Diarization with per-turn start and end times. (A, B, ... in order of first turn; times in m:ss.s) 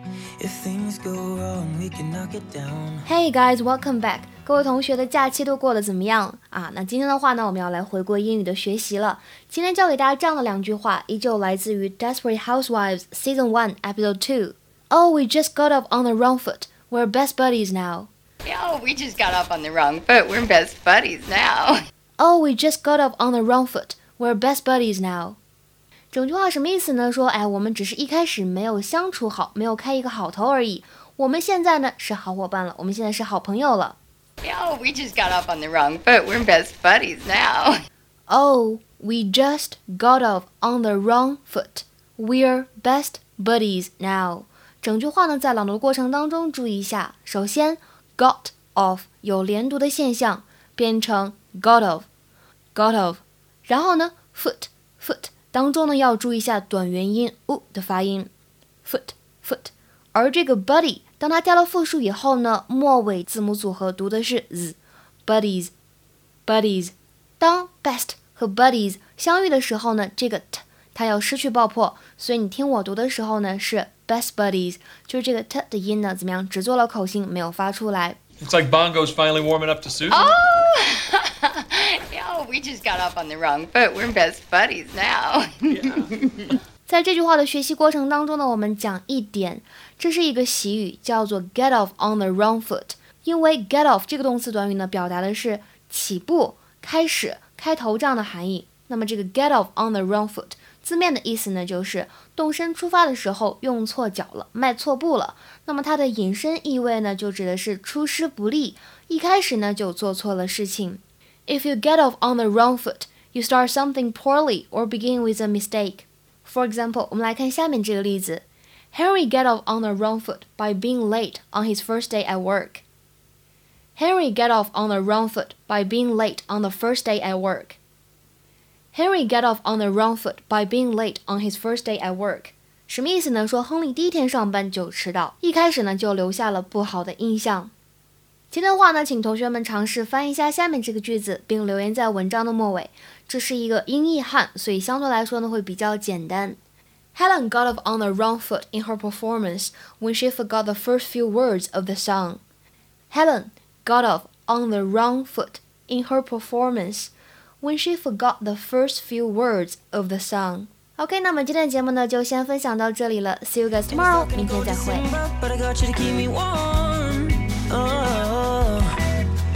0:00.4-0:03.1 A
0:03.0-0:18.1 B
0:18.4-0:21.8 C
0:22.2-0:25.4 B
0:26.1-0:34.0 B
0:34.4-0:37.8 C
0:38.3-0:52.1 B
0:52.8-0:58.3 B
0:58.8-1:05.7 B
1:06.5-1:18.2 B
1:18.4-1:20.4 D
1:20.1-1:26.5 C
1:26.9-2:02.8 B
2:04.0-2:07.8 B
2:08.9-2:17.7 B
2:18.5-2:26.6 B
2:27.1-2:32.4 B
2:33.1-2:45.2 B
2:43.9-2:49.0 A